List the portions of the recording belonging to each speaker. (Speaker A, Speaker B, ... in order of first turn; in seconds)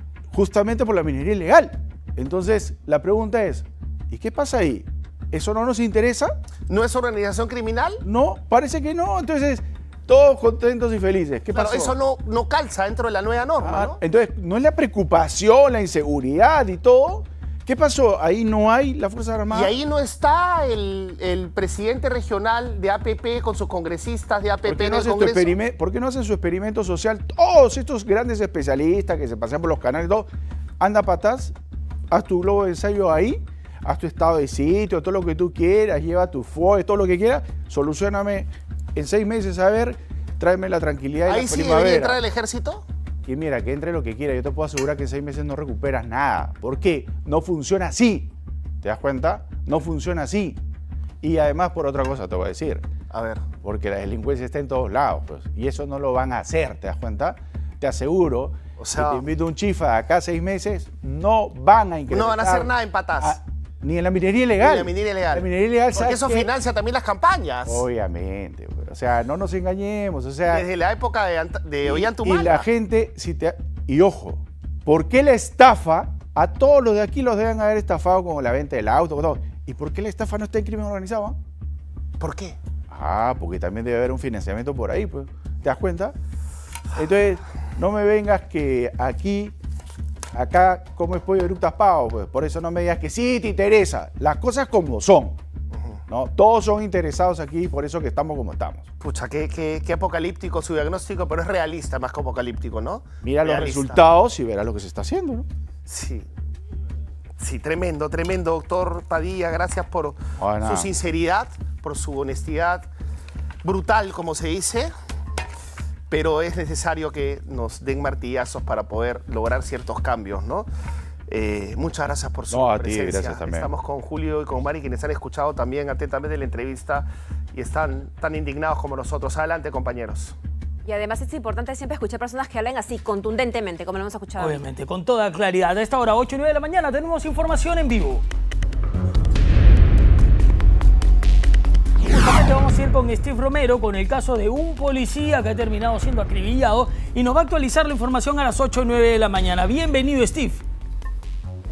Speaker A: 0.3-6.3, 8.0-12.0, 13.6-19.7, 24.6-30.3, 30.8-31.5, 32.1-42.2, 43.2-48.3, 48.8-50.6, 51.2-52.9, 53.6-66.5, 67.7-70.7, 71.8-81.4, 82.9-86.1, 87.0-89.5, 90.3-95.4, 96.1-98.9, 103.2-105.5, 110.4-110.9, 122.5-123.7
Speaker B: 6.7-8.0, 11.5-14.0, 19.5-25.5, 41.3-42.9, 53.1-53.5, 58.8-59.2, 62.1-63.4, 64.6-67.8, 70.5-72.7, 82.2-82.6, 95.7-96.0, 99.0-104.0, 105.9-106.3, 107.4-112.9, 113.6-114.9, 116.1-120.7, 121.3-130.4
Speaker C: 130.8-134.6
Speaker D: 134.4-138.2, 142.1-150.6